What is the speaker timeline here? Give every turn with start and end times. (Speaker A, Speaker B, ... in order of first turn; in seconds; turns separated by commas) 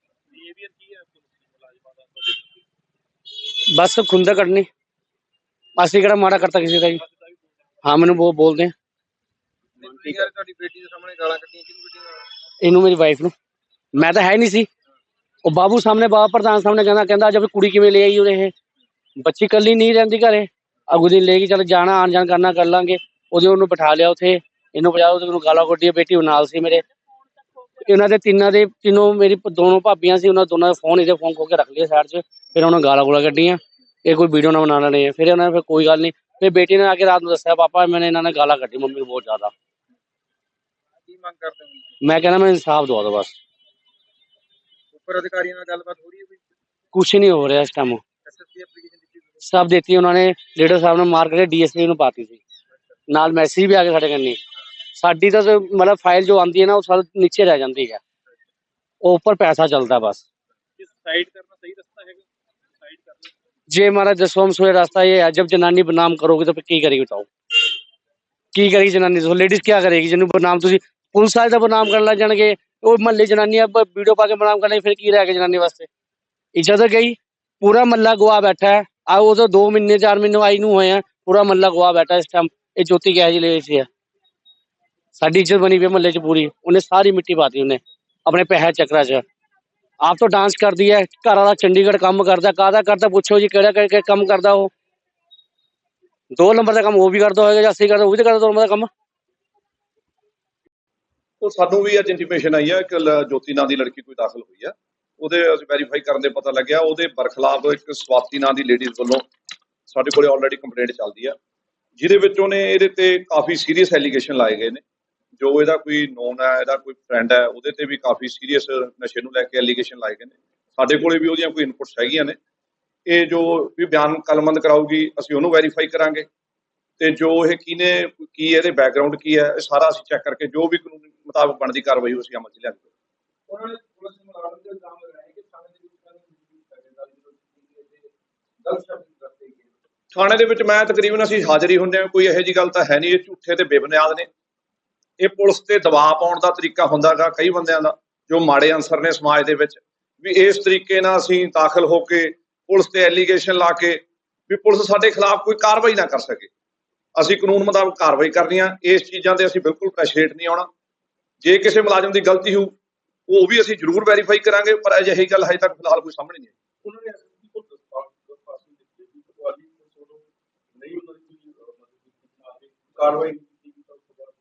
Speaker A: 0.3-1.1, Speaker B: 3.4-4.7, Speaker B: 5.8-7.0, Speaker B: 7.8-8.7, Speaker A: 9.8-12.1, Speaker B: 9.9-10.2, Speaker B: 12.6-13.3, Speaker B: 13.9-14.7, Speaker B: 15.4-18.5, Speaker B: 19.2-26.8, Speaker B: 27.8-39.5, Speaker A: 41.6-41.8, Speaker B: 42.0-43.3, Speaker A: 44.9-46.4, Speaker B: 46.9-48.0, Speaker A: 48.3-49.2, Speaker B: 49.4-52.4, Speaker B: 53.1-54.4, Speaker B: 55.0-58.0, Speaker B: 59.0-60.2, Speaker A: 61.1-62.2, Speaker B: 63.7-67.3, Speaker B: 68.5-75.9, Speaker B: 76.5-83.9, Speaker B: 85.2-89.2, Speaker B: 90.0-94.7, Speaker B: 96.3-98.9, Speaker C: 101.4-109.3, Speaker C: 109.9-111.3, Speaker C: 112.0-114.8, Speaker C: 115.4-122.4, Speaker C: 123.1-126.3, Speaker C: 127.0-132.8, Speaker A: 133.5-138.1, Speaker A: 138.6-139.7, Speaker C: 140.1-144.3, Speaker C: 145.2-156.5, Speaker C: 157.2-160.7, Speaker C: 161.4-162.7, Speaker C: 163.3-166.5, Speaker A: 166.8-170.2, Speaker A: 170.8-174.3